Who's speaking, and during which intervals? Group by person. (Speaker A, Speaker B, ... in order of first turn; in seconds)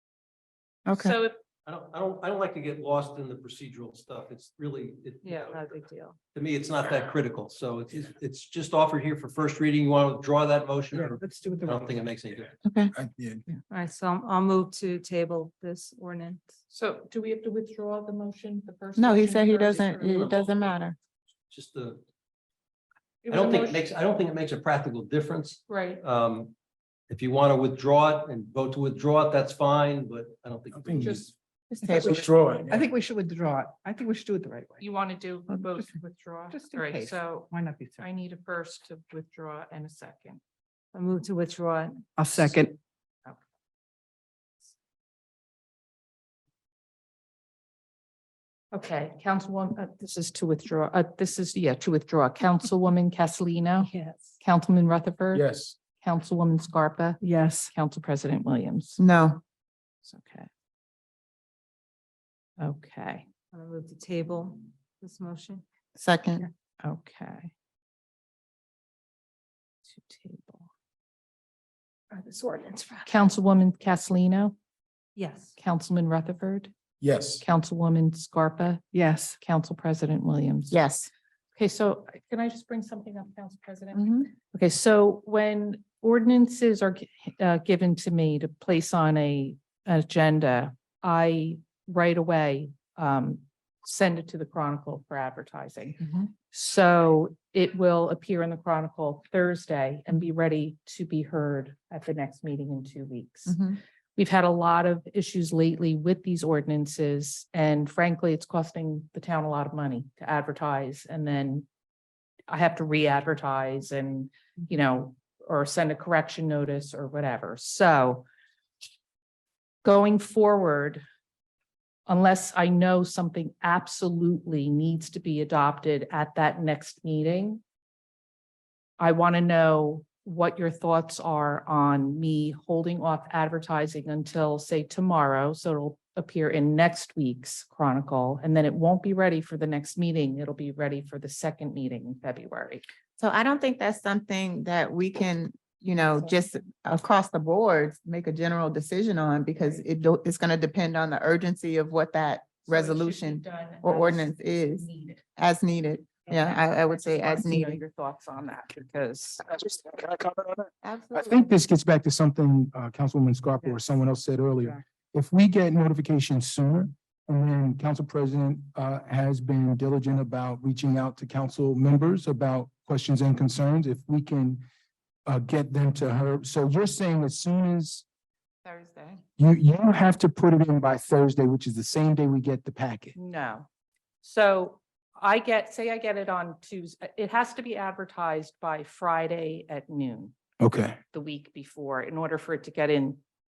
Speaker A: 0.8-1.2, 12.6-12.9, 19.0-20.9, 31.7-32.2, 59.0-59.4, 66.0-66.5, 80.7-81.1, 83.9-84.3, 96.0-96.3, 103.5-103.8, 143.2-157.8, 160.8-161.5, 178.6-179.2
Speaker B: 0.9-1.4, 16.7-20.4, 23.2-23.9, 25.7-26.0, 31.0-31.3, 34.8-40.4, 48.7-55.4, 56.0-57.2, 57.7-59.0, 60.0-60.5, 62.6-63.2, 66.8-67.5, 69.9-70.7, 73.0-74.5, 75.6-76.7, 77.4-78.8, 79.4-80.8, 81.5-96.0, 96.5-103.6, 104.2-111.7, 112.5-118.2, 119.8-121.0, 122.1-127.6, 129.0-142.8, 149.6-149.8, 152.7-155.2, 156.3-159.4, 183.1-183.7, 184.2-190.3, 191.1-193.2
Speaker C: 1.6-5.7, 6.3-12.5, 20.0-20.7, 21.5-22.0, 23.3-26.5, 27.1-31.3
Speaker D: 5.2-6.2, 13.7-16.5, 40.9-42.0, 53.8-54.4, 63.5-65.6, 72.1-73.1, 75.2-75.5
Speaker E: 10.9-12.2, 31.9-32.2, 32.7-34.8, 36.5-38.0, 42.2-42.8, 57.2-57.7, 78.9-79.4
Speaker F: 12.9-13.4, 30.8-31.2, 31.9-32.9, 55.3-55.8, 77.0-77.4, 159.4-174.6, 175.2-178.0, 179.4-183.1, 190.6-191.0